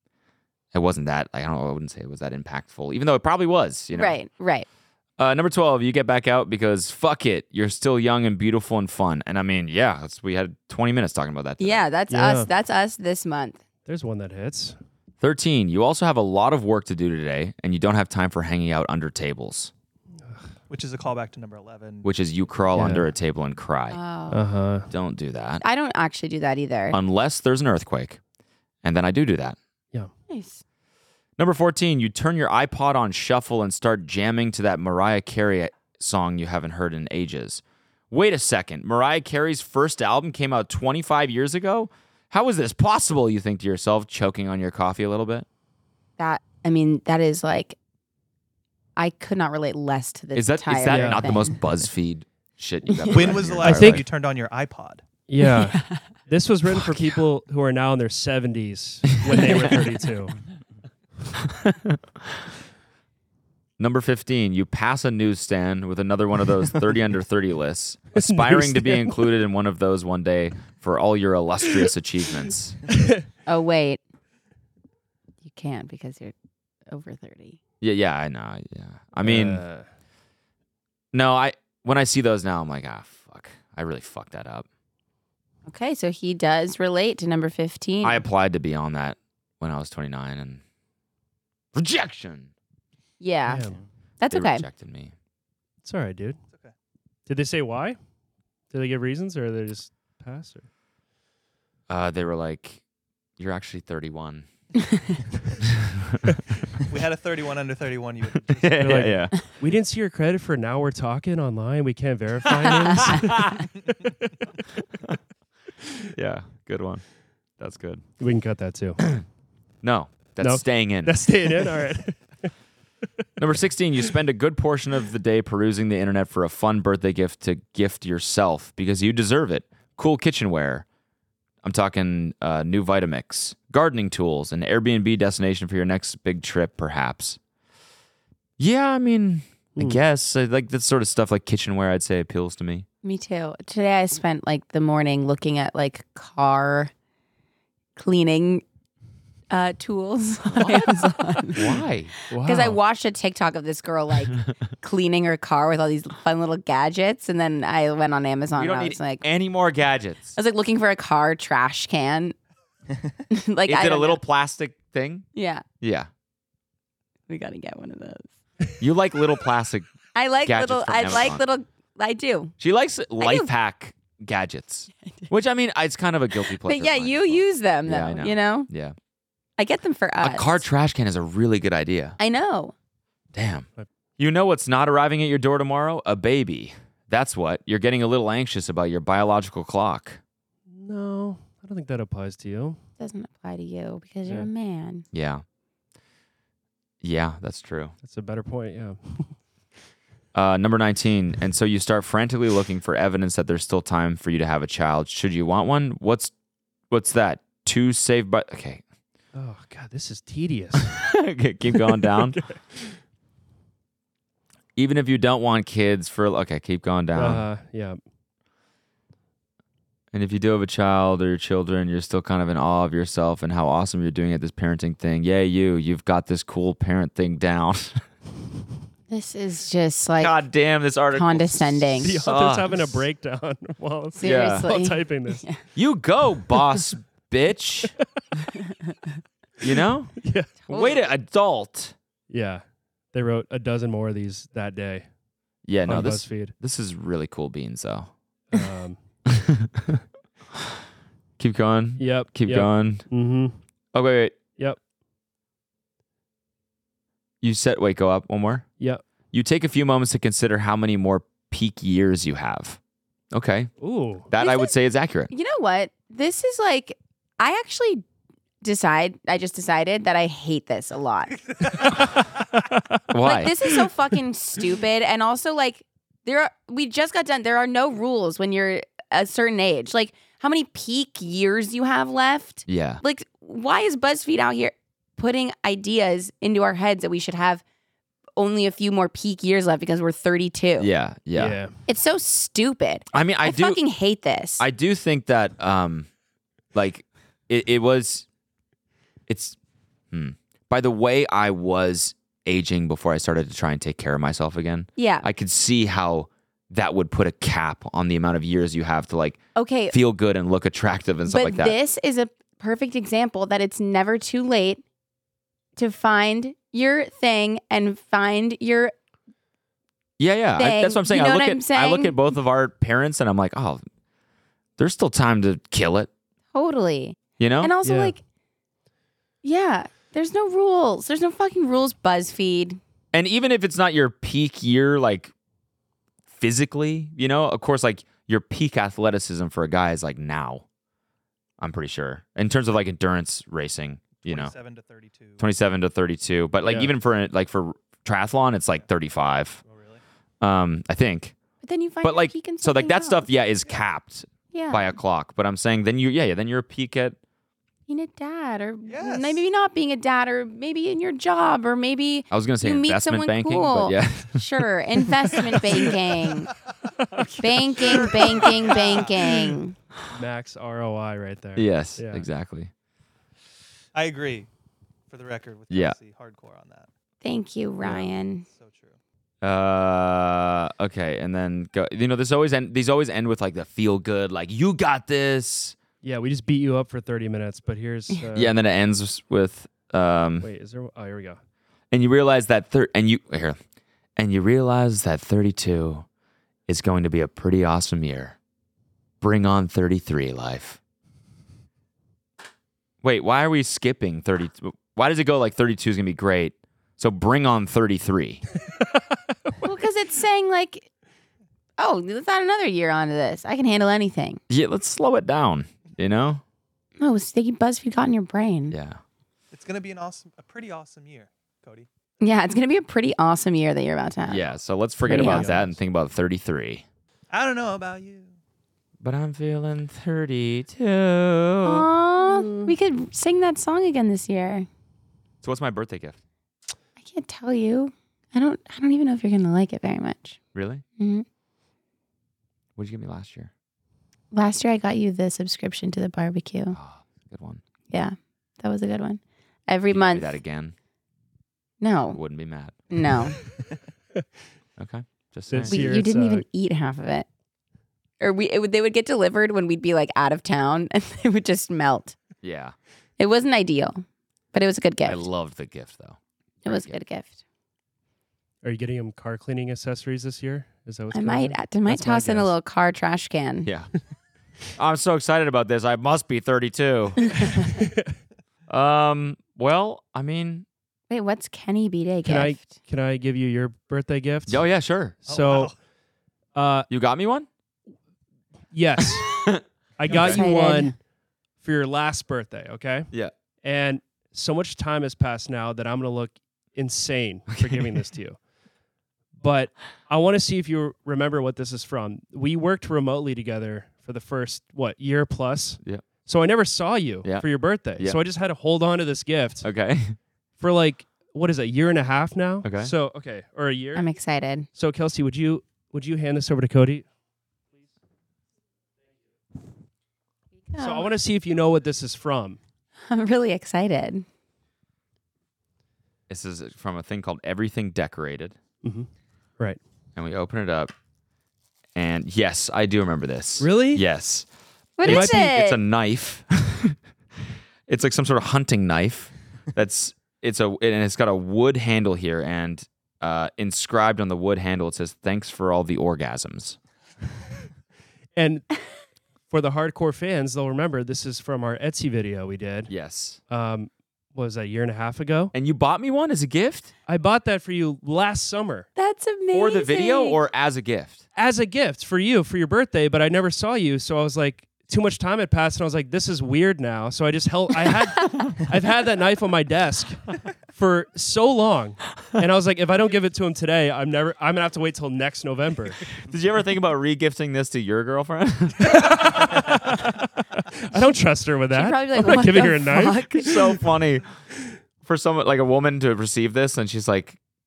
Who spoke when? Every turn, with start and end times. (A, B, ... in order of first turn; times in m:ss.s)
0:00.7-0:04.2 A
0:04.0-0:04.7 B
0:05.2-0:11.8 A
0:11.6-0:13.6 B
0:12.1-0:12.5 C
0:13.9-0:14.8 C
0:15.2-0:19.7 A
0:20.2-0:20.5 C
0:20.7-0:22.1 D
0:22.0-0:24.0 A
0:22.8-0:23.1 C
0:23.9-0:24.4 B
0:24.3-0:24.9 C
0:24.9-0:25.6 A
0:25.6-0:27.0 B
0:26.9-0:28.2 A
0:28.8-0:29.6 A
0:30.3-0:30.6 B
0:31.4-0:45.5 A
0:46.2-0:47.8 B
0:49.0-0:51.6 B
0:50.4-0:54.0 A
0:50.9-0:51.3 C
0:52.9-0:53.4 B
0:53.1-0:55.0 D
0:53.6-0:54.0 C
0:55.3-1:00.4 C
0:55.5-0:56.0 B
0:56.7-0:57.2 A
0:59.3-0:59.7 A
1:01.4-1:02.0 A
1:03.8-1:12.8 A
1:08.2-1:09.2 C
1:13.0-1:13.2 C
1:13.5-1:14.0 B
1:15.4-1:16.3 B
1:16.9-1:17.6 B
1:17.8-1:19.6 A
1:19.2-1:19.9 C
1:21.1-1:24.7 A
1:25.7-1:28.2 B
1:28.0-1:30.6 A
1:31.8-1:32.5 A
1:33.2-1:33.6 B
1:33.5-1:33.8 C
1:34.2-1:34.7 B
1:34.3-1:35.1 A
1:35.8-1:36.4 C
1:37.3-1:38.0 C
1:38.7-1:40.6 C
1:41.9-1:42.8 A
1:43.4-1:44.5 A
1:45.6-1:46.3 A
1:46.9-1:49.0 D
1:48.5-1:49.4 A
1:48.8-1:53.6 C
1:53.0-1:53.6 A
1:56.1-1:57.0 A
1:57.6-1:58.0 A
1:58.2-1:59.0 C
1:59.8-2:01.2 A
2:00.4-2:02.5 C
2:03.4-2:10.9 A
2:11.6-2:17.4 A
2:18.6-2:22.9 A
2:23.0-2:26.9 B
2:28.0-2:28.6 B
2:29.5-2:31.8 B
2:30.5-2:32.1 A
2:32.3-2:32.8 C
2:32.3-2:39.2 B
2:38.6-2:40.4 A
2:40.4-2:42.4 B
2:43.3-2:44.2 B
2:43.7-2:45.3 A
2:45.4-2:45.6 B
2:45.8-2:46.1 A
2:47.3-2:48.3 B
2:48.8-2:49.9 A
2:50.2-2:52.6 B
2:50.4-2:51.4 A
2:52.6-2:59.0 A
2:53.2-2:53.5 B
2:56.6-2:58.7 B
2:59.6-3:00.6 B
3:00.2-3:02.2 A
3:02.2-3:02.7 B
3:03.3-3:03.7 A
3:04.2-3:10.2 A
3:10.7-3:12.8 C
3:13.0-3:15.0 B
3:15.1-3:15.4 A
3:17.0-3:18.0 A
3:18.0-3:19.4 C
3:20.3-3:26.3 A
3:26.9-3:28.8 A
3:29.4-3:31.0 C
3:30.8-3:32.4 A
3:31.7-3:33.0 C
3:34.8-3:37.4 A
3:37.2-3:38.0 C
3:40.1-3:48.0 A
3:49.1-3:50.3 B
3:50.2-3:53.0 A
3:51.1-3:52.2 B
3:52.0-3:55.5 C
3:54.2-3:55.6 B
3:54.2-3:54.7 A
3:55.8-3:57.9 A
3:59.6-4:00.1 A
4:00.2-4:00.5 C
4:00.7-4:01.1 B
4:00.7-4:02.0 A
4:02.3-4:05.1 C
4:05.7-4:08.1 A
4:05.9-4:06.5 C
4:08.5-4:09.0 C
4:09.3-4:10.0 A
4:11.4-4:13.1 A
4:12.0-4:13.6 C
4:13.9-4:14.4 A
4:17.4-4:18.6 A
4:19.3-4:22.8 A
4:23.3-4:23.7 A
4:23.8-4:24.3 C
4:24.3-4:25.3 A
4:24.4-4:24.8 B
4:25.3-4:28.0 B
4:28.6-4:31.8 B
4:33.1-4:33.5 A
4:33.2-4:47.6 B
4:42.7-4:43.0 A
4:48.4-4:50.9 B
4:50.8-4:51.6 A
4:51.3-4:51.7 C
4:51.9-4:54.6 B
4:53.1-4:53.8 A
4:54.6-4:56.1 A
4:56.7-4:58.3 A
4:59.3-4:59.6 A
5:00.1-5:09.4 A
5:05.0-5:05.3 B
5:09.6-5:10.0 B
5:09.9-5:11.8 A
5:11.3-5:14.8 B
5:15.8-5:18.9 B
5:20.2-5:23.8 A
5:20.6-5:22.2 B
5:24.8-5:26.1 A
5:26.5-5:28.2 B
5:27.4-5:27.7 A
5:27.8-5:28.1 C
5:29.4-5:32.8 B
5:33.1-5:35.3 A
5:36.4-5:40.6 A
5:41.6-5:44.5 A
5:44.2-5:45.4 D
5:45.4-5:49.6 A
5:46.6-5:46.9 C
5:49.6-5:50.0 D
5:50.4-5:51.4 A
5:51.6-5:53.3 B
5:52.0-5:57.2 A
5:54.5-5:54.9 B
5:57.9-6:06.5 B
5:58.9-5:59.4 D
6:02.3-6:04.4 A
6:07.4-6:09.8 B
6:08.2-6:09.4 D
6:10.1-6:12.3 C
6:11.6-6:12.7 A
6:14.0-6:14.5 D
6:15.1-6:16.9 D
6:15.7-6:16.0 A
6:17.2-6:18.5 B
6:17.8-6:18.1 C
6:18.4-6:19.0 D
6:19.4-6:25.8 A
6:26.0-6:28.5 C
6:28.4-6:30.5 A
6:30.4-6:31.4 C
6:31.9-6:33.6 A
6:34.2-6:36.1 A
6:36.7-6:38.4 A
6:39.2-6:40.8 A
6:43.0-6:48.4 A
6:49.6-6:50.9 B
6:51.8-6:54.4 B
6:54.5-6:56.4 A
6:57.0-6:58.8 B
6:58.7-6:59.0 A
6:59.5-7:01.9 D
7:02.2-7:04.4 B
7:04.3-7:06.8 A
7:05.0-7:05.5 B
7:05.1-7:05.8 C
7:07.3-7:08.4 D
7:09.0-7:11.9 A
7:11.6-7:14.7 B
7:12.2-7:12.7 C
7:15.4-7:16.2 A
7:17.0-7:20.4 B
7:20.5-7:20.8 A
7:21.0-7:21.3 B
7:22.8-7:23.5 A
7:24.3-7:26.8 B
7:26.7-7:27.6 A
7:27.9-7:30.4 B
7:29.9-7:30.8 A
7:31.8-7:32.2 B
7:32.1-7:32.8 A
7:32.9-7:33.4 B
7:34.8-7:36.0 A
7:35.5-7:36.4 C
7:35.7-7:37.3 B
7:38.2-7:42.2 B
7:42.4-7:42.8 A
7:43.2-7:45.2 B
7:45.1-7:47.0 A
7:46.6-7:47.4 B
7:48.6-7:52.5 C
7:51.1-7:53.7 B
7:53.7-7:53.9 A
7:54.8-7:57.2 A
7:57.8-7:58.0 C
7:58.7-8:00.7 A
8:01.1-8:02.7 B
8:02.2-8:04.6 C
8:04.5-8:05.2 A
8:05.2-8:05.7 C
8:05.3-8:05.8 D
8:06.6-8:06.9 C
8:06.9-8:07.5 A
8:08.7-8:09.4 C
8:09.0-8:10.4 A
8:10.0-8:11.0 C
8:10.1-8:10.9 B
8:11.6-8:13.1 C
8:13.6-8:18.4 C
8:17.5-8:17.9 A
8:19.4-8:29.7 C
8:27.2-8:28.2 A
8:29.6-8:30.2 A
8:30.6-8:34.1 C
8:32.6-8:32.9 A
8:34.0-8:34.7 B
8:34.8-8:37.1 C
8:40.7-8:41.1 B
8:40.8-8:42.6 C
8:43.1-8:44.2 B
8:46.3-8:48.6 A
8:48.8-8:49.1 C
8:50.2-8:50.9 A
8:52.0-8:54.5 A
8:53.6-8:54.0 C
8:55.0-8:55.8 B
8:55.0-8:55.5 C
8:55.0-8:57.0 A
8:57.9-9:06.8 A
9:08.4-9:08.7 C
9:09.5-9:12.9 C
9:12.9-9:13.4 A
9:13.5-9:15.5 C
9:15.5-9:16.9 A
9:17.1-9:18.9 C
9:19.0-9:20.4 B
9:19.5-9:21.2 A
9:21.4-9:36.0 C
9:36.1-9:39.9 A
9:38.9-9:39.9 C
9:40.7-9:43.8 C
9:41.7-9:43.7 B
9:43.2-9:44.3 A
9:45.0-9:47.4 A